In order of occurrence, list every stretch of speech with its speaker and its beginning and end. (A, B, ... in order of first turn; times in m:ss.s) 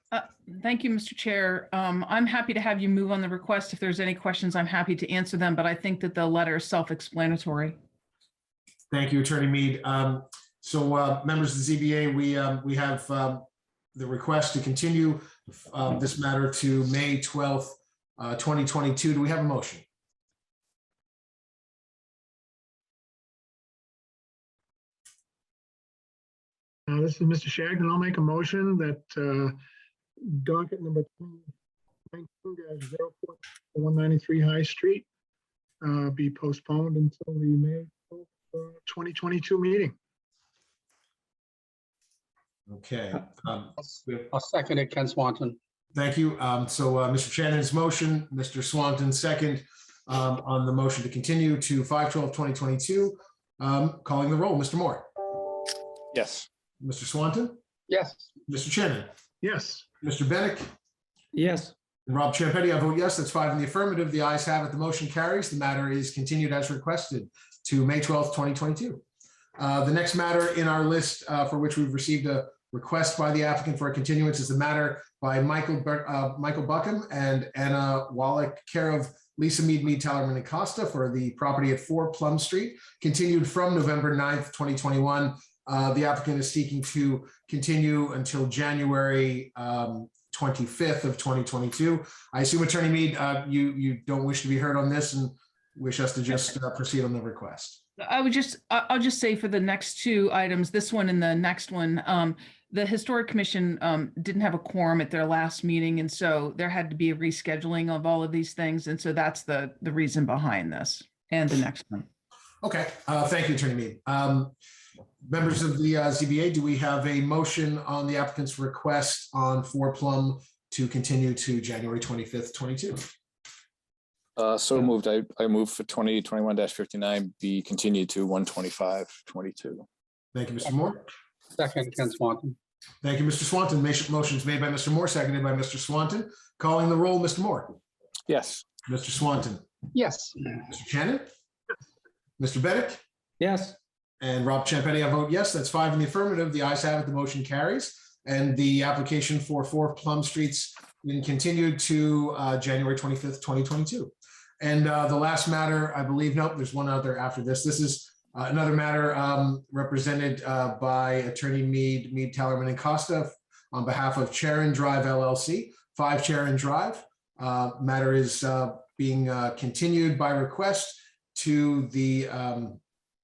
0:00.1-0:07.8 A
0:08.9-0:13.4 B
0:14.0-0:19.8 B
0:26.9-0:29.6 C
0:30.2-0:31.5 C
0:32.1-0:35.0 C
0:35.8-0:39.9 C
0:42.7-0:44.3 B
0:44.3-0:45.6 D
0:45.9-0:55.1 B
0:56.1-0:56.5 E
0:56.8-0:57.6 B
0:57.9-0:58.3 D
0:58.5-0:59.1 B
0:59.4-0:59.9 C
1:00.0-1:00.7 B
1:01.4-1:01.7 E
1:02.1-1:09.0 B
1:09.6-1:37.8 B
1:38.0-1:52.0 A
1:52.6-1:54.5 B
1:55.2-2:03.1 B
2:04.4-2:09.8 E
2:10.3-2:11.0 B
2:11.5-2:12.6 D
2:13.0-2:17.7 B
2:18.3-2:18.6 E
2:18.8-2:19.6 B
2:19.9-2:20.6 D
2:20.7-2:21.3 B
2:22.4-2:23.0 B
2:23.4-2:23.8 E
2:24.2-2:52.8 B